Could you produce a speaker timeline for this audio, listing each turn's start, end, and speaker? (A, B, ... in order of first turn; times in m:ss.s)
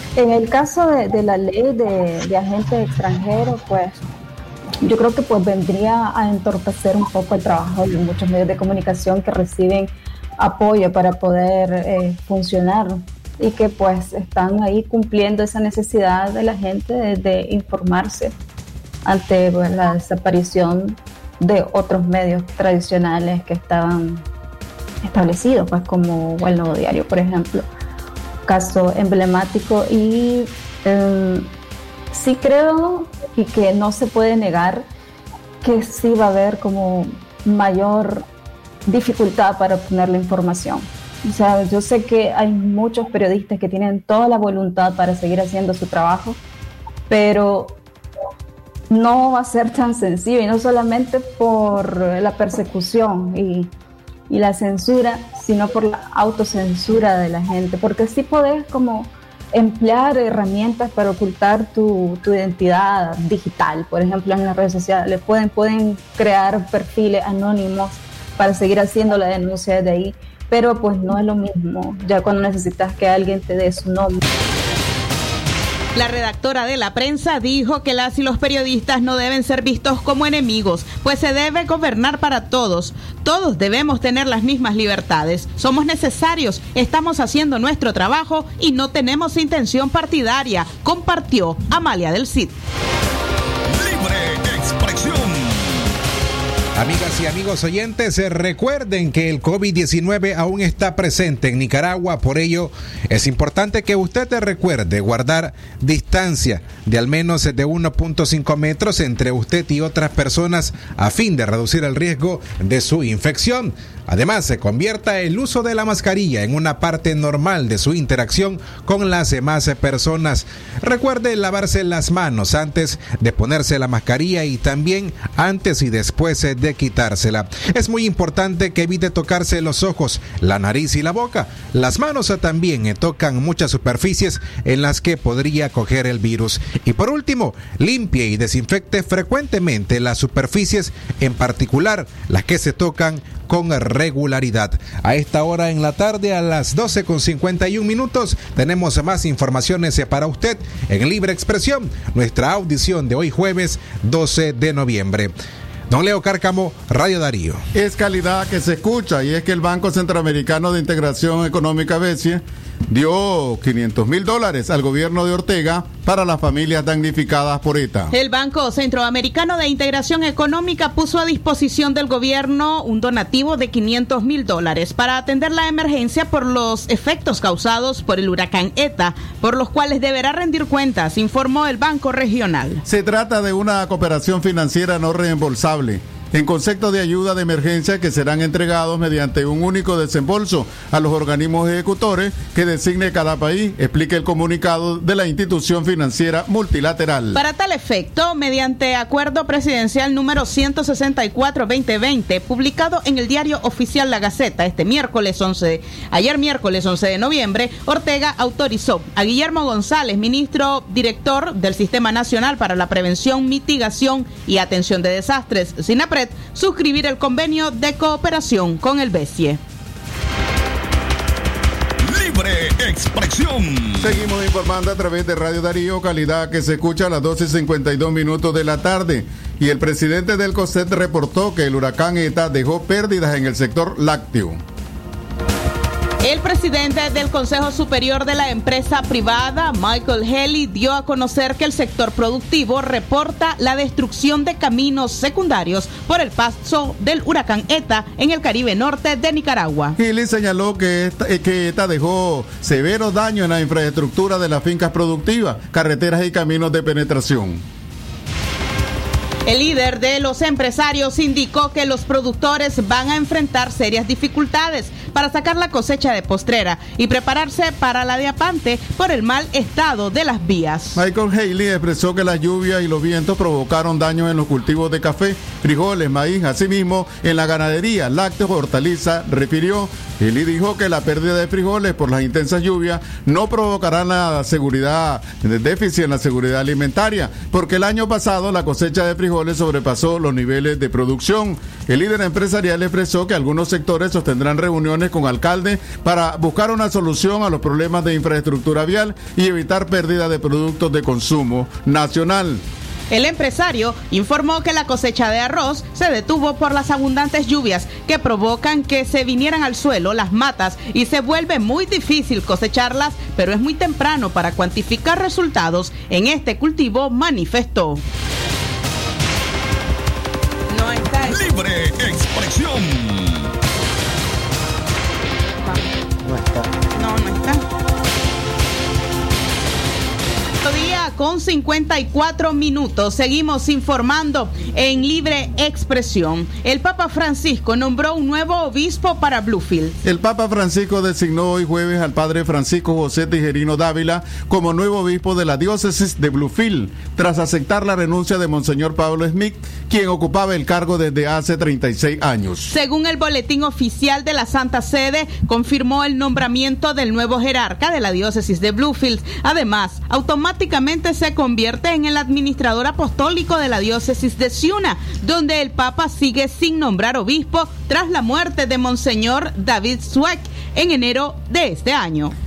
0:00.2-0:04.0 A
0:04.8-0:18.3 A
0:19.0-0:24.2 A
0:25.0-0:27.7 A
0:28.4-0:31.5 A
0:32.1-0:34.9 A
0:35.6-0:38.2 A
0:38.9-0:46.4 A
0:47.1-0:47.8 A
0:48.9-0:53.7 A
0:54.3-1:14.2 A
1:15.9-1:32.6 B
1:33.7-1:35.9 C
1:36.7-2:35.3 D
2:35.9-2:37.6 D
2:37.7-2:48.1 E
2:48.1-3:02.8 B
3:02.9-3:17.4 E
3:17.3-3:39.6 B
3:42.0-3:44.2 C
3:44.0-3:54.6 E
3:56.2-4:10.0 B
4:10.0-4:17.6 E
4:19.4-4:31.0 B
4:31.0-5:02.6 E
5:03.1-5:18.0 B
5:20.7-5:21.4 B
5:21.2-5:23.5 C
5:26.9-5:27.6 B
5:30.6-5:40.0 B
5:40.0-5:52.7 E
5:52.7-6:12.3 B